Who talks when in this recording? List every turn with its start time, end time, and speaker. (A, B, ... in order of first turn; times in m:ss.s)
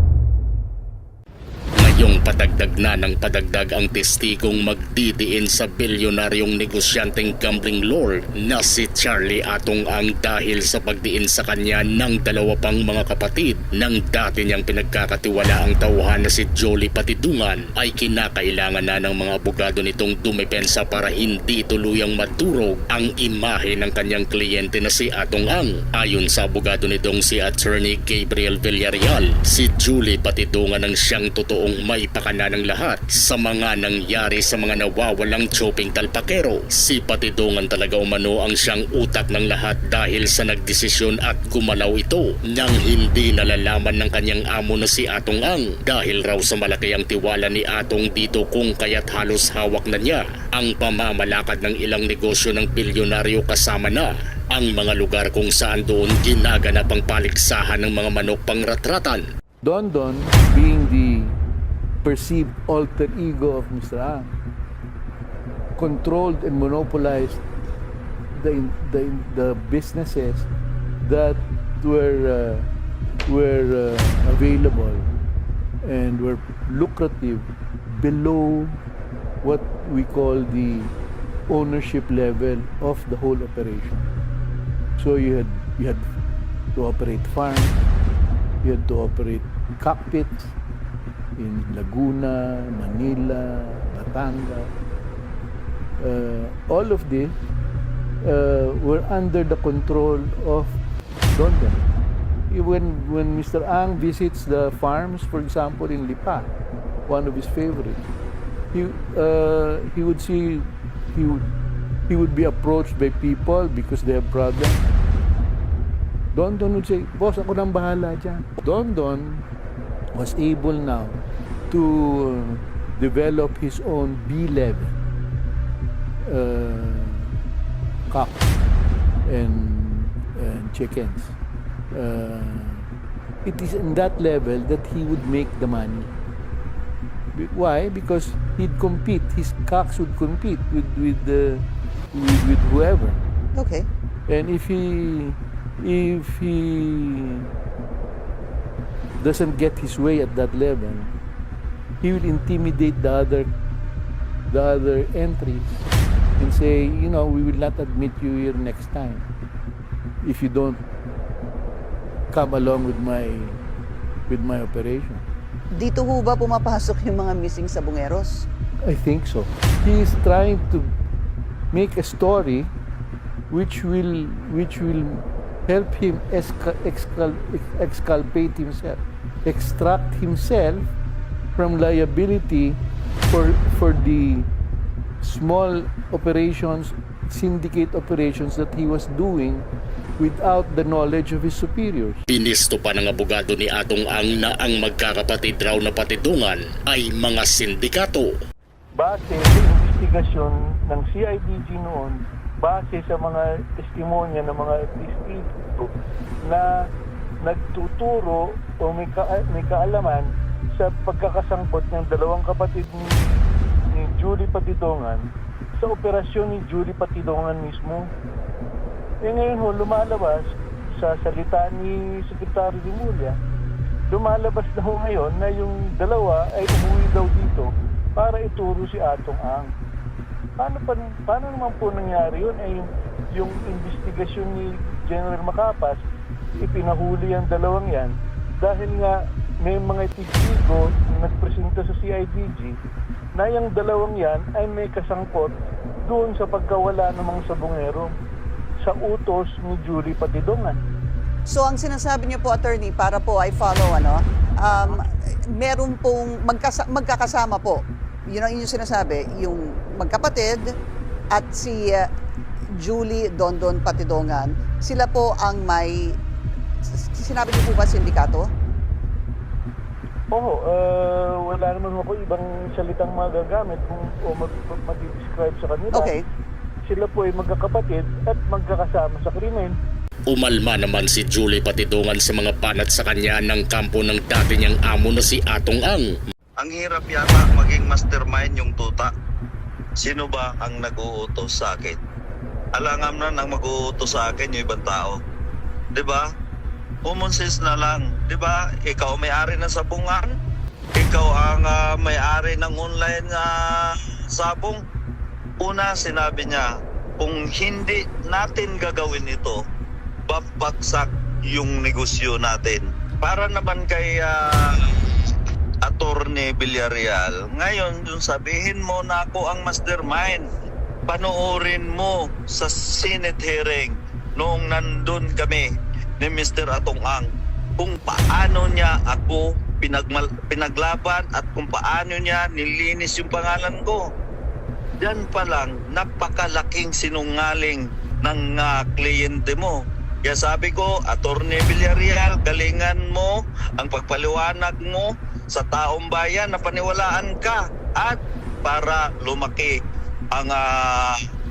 0:01.8-0:59.3 A
0:59.6-1:01.4 B
1:02.0-1:04.4 B
1:05.8-1:07.4 B
1:08.3-1:10.5 B
1:11.0-1:12.7 B
1:13.3-1:15.1 B
1:15.8-1:18.8 B
1:19.4-1:20.9 B
1:21.5-1:24.1 B
1:25.0-1:26.1 B
1:26.8-1:27.8 B
1:28.6-1:30.6 B
1:31.4-1:34.7 B
1:36.0-1:37.4 B
1:38.2-1:40.8 B
1:41.3-1:41.9 B
1:42.5-1:46.5 B
1:47.1-1:48.0 B
1:48.7-1:51.5 B
1:52.1-1:54.8 B
1:56.3-1:59.5 B
2:00.1-2:05.0 B
2:06.2-2:07.4 B
2:08.1-2:08.4 B
2:09.3-2:11.4 B
2:11.9-2:12.9 B
2:13.4-2:16.1 B
2:17.3-2:23.2 B
2:23.5-2:23.9 C
2:24.3-2:27.5 B
2:29.2-2:31.2 B
2:32.0-2:33.5 B
2:34.5-2:35.9 B
2:36.4-2:39.3 B
2:40.2-2:40.8 B
2:42.3-2:43.6 B
2:44.3-2:45.3 B
2:45.7-2:48.5 C
2:48.8-2:50.9 B
2:51.7-2:52.7 B
2:53.5-3:00.9 B
3:01.6-3:04.5 B
3:05.2-3:09.7 B
3:10.2-3:12.2 B
3:12.3-3:18.4 A
3:19.0-3:25.9 D
3:26.4-3:26.7 D
3:27.4-3:35.3 D
3:35.8-3:38.1 D
3:39.2-3:43.4 D
3:44.1-3:49.7 D
3:50.6-3:56.0 D
3:56.6-4:02.8 D
4:03.4-4:05.5 D
4:06.0-4:08.2 D
4:08.8-4:10.8 D
4:11.5-4:20.8 C
4:21.3-4:22.1 C
4:22.8-4:26.2 C
4:26.9-4:28.5 C
4:30.3-4:36.2 D
4:35.9-4:36.2 C
4:36.9-4:39.8 D
4:40.3-4:46.1 A
4:46.6-4:49.1 E
4:50.0-4:52.0 E
4:52.8-4:55.2 E
4:56.0-4:56.3 E
4:57.0-5:00.3 E
5:01.0-5:04.8 E
5:05.6-5:06.7 E
5:07.2-5:09.6 E
5:10.3-5:15.0 E
5:15.8-5:20.5 E
5:21.1-5:25.7 E
5:26.2-5:34.0 E
5:35.0-5:49.8 E
5:50.3-5:51.2 E